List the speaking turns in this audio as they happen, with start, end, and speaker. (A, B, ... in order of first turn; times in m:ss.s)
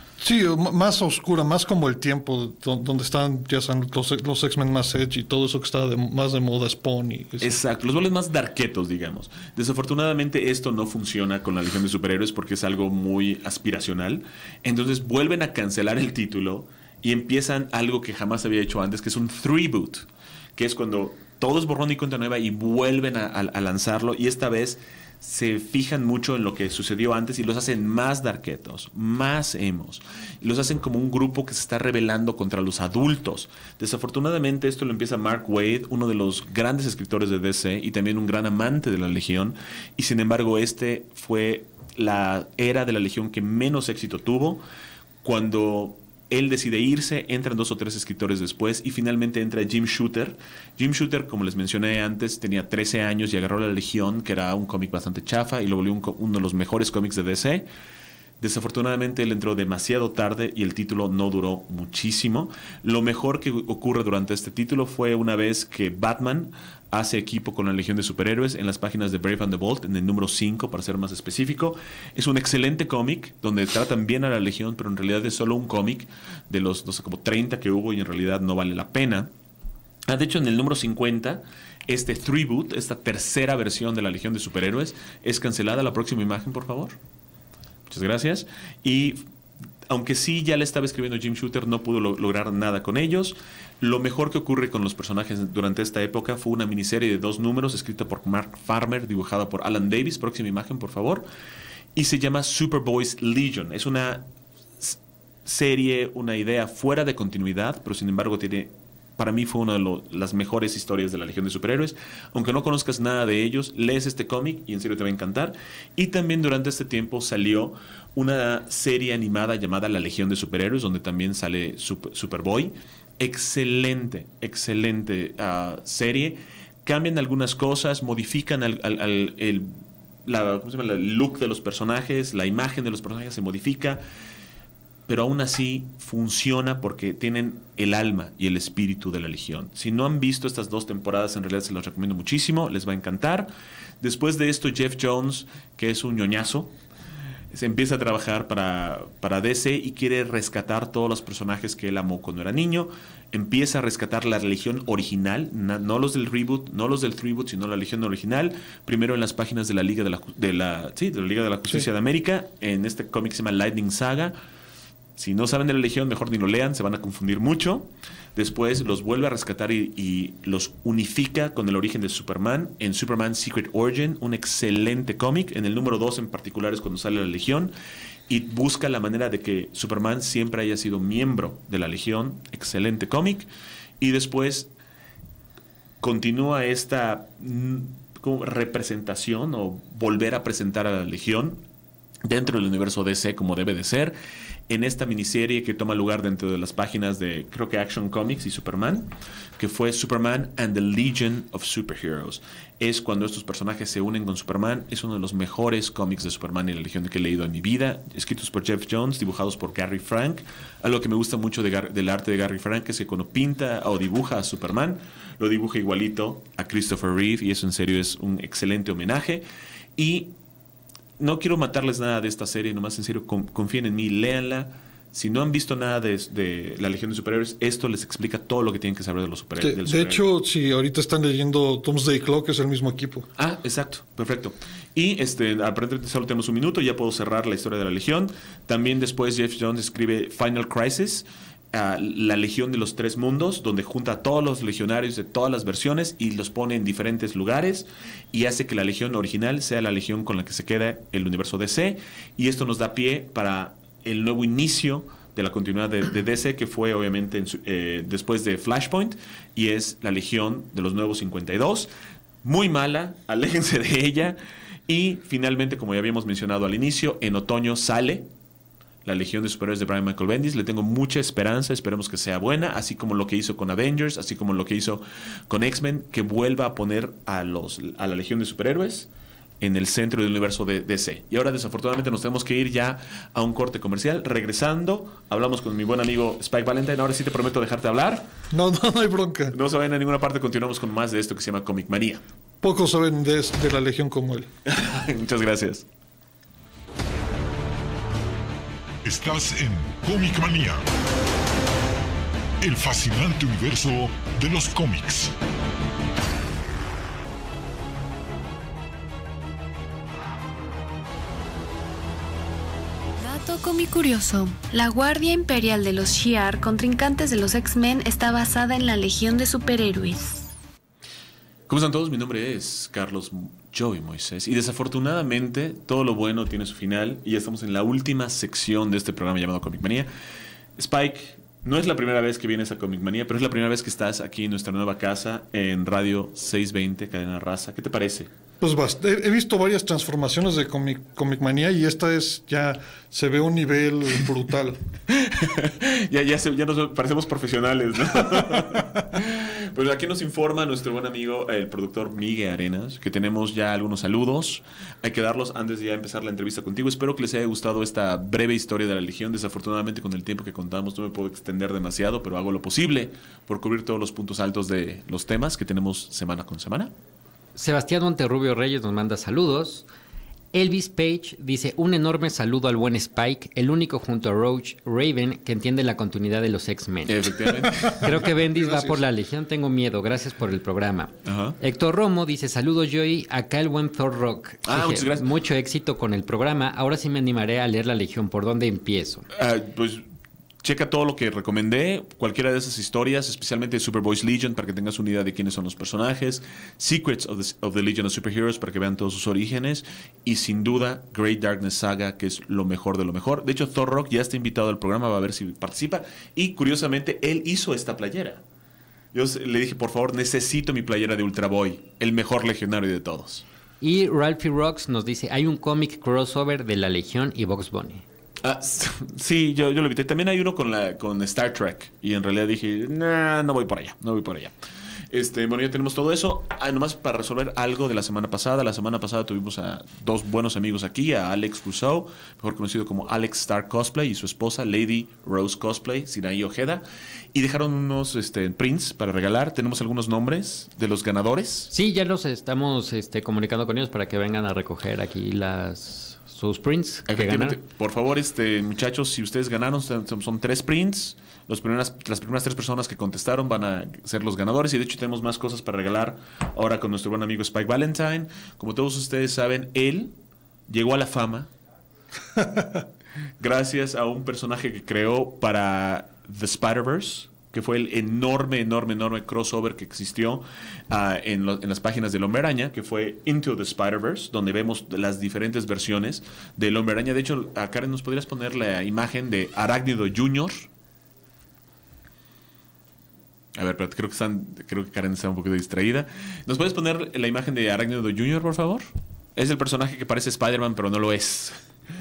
0:00.2-0:07.5 A
0:07.4-0:44.6 B
0:45.2-0:57.6 B
0:58.4-1:19.3 B
1:20.1-1:27.0 B
1:27.9-1:29.2 B
1:29.9-1:41.2 B
1:41.9-1:44.2 B
1:44.8-2:14.0 B
2:15.1-2:26.7 B
2:27.5-2:44.4 B
2:45.2-2:57.7 B
2:58.3-3:03.5 B
3:04.0-3:04.7 B
3:06.0-3:11.6 B
3:12.2-3:14.2 B
3:14.7-3:39.4 B
3:40.0-3:40.3 B
3:41.2-3:50.2 B
3:49.6-3:53.3 A
3:53.4-4:21.9 B
4:22.4-4:28.3 B
4:29.0-4:39.1 B
4:39.6-4:48.3 B
4:48.5-4:49.6 A
4:49.5-4:52.2 B
4:52.6-4:54.5 A
4:54.6-4:55.8 B
4:59.0-5:00.8 C
5:02.6-5:05.3 C
5:13.2-5:20.4 D
5:21.7-5:30.1 B
5:30.8-5:38.3 B
5:38.6-5:44.8 A
5:45.1-6:06.9 B
5:48.3-5:48.7 A
6:07.6-6:09.8 E
6:10.5-6:29.3 E
6:17.0-6:18.3 B
6:21.2-6:21.6 B
6:24.6-6:25.2 B
6:29.3-6:30.0 B
6:30.6-6:48.4 B
6:49.1-6:53.4 B
6:53.8-6:58.0 E
6:58.4-7:04.5 B
7:05.1-7:21.7 B
7:21.7-7:27.6 E
7:27.1-7:40.1 B
7:40.7-7:41.5 B
7:43.4-8:00.7 B
8:03.6-8:11.6 B